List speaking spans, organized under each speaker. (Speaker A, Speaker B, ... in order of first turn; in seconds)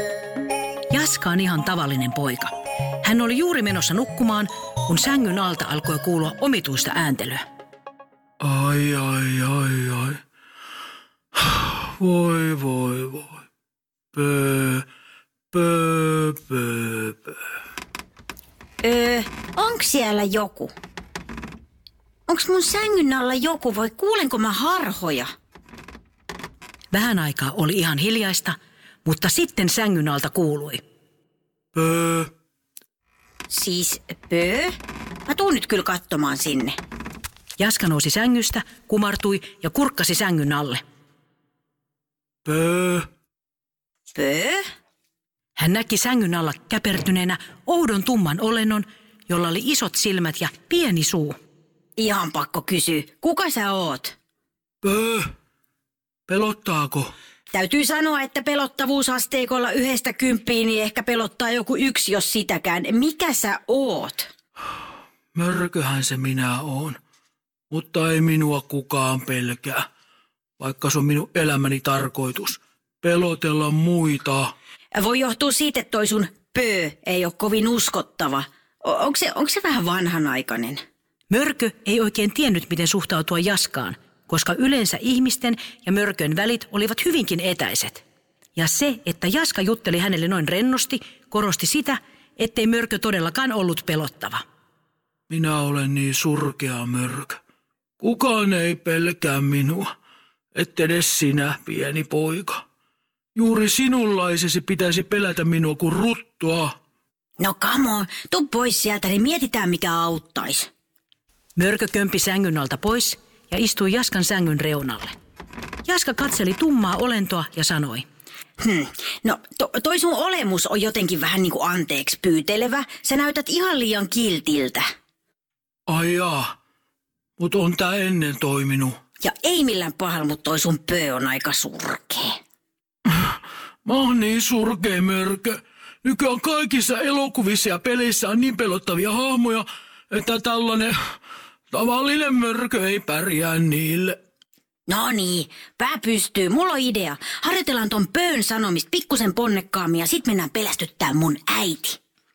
Speaker A: 0.9-2.5, 3.0-7.4, 26.9-30.8, 37.6-40.8, 45.5-51.4, 81.3-88.0, 88.5-94.4, 111.5-115.2, 115.8-118.1
Speaker B: 8.4-10.2, 11.3-13.4, 14.1-14.8, 15.5-17.4, 31.7-32.3, 42.4-43.0, 54.8-55.3, 56.3-57.1, 65.3-67.0, 67.7-69.8, 70.6-74.5, 95.3-97.4, 98.0-99.9, 100.5-102.6, 103.3-106.8, 125.9-126.5, 127.4-129.0, 133.1-141.0, 141.7-144.2
Speaker C: 18.8-20.7, 22.3-25.3, 33.5-34.7, 35.3-36.8, 44.1-44.6, 52.0-54.1, 57.5-64.3, 74.9-80.8, 107.4-110.7, 118.6-124.8, 129.2-132.3, 144.9-152.0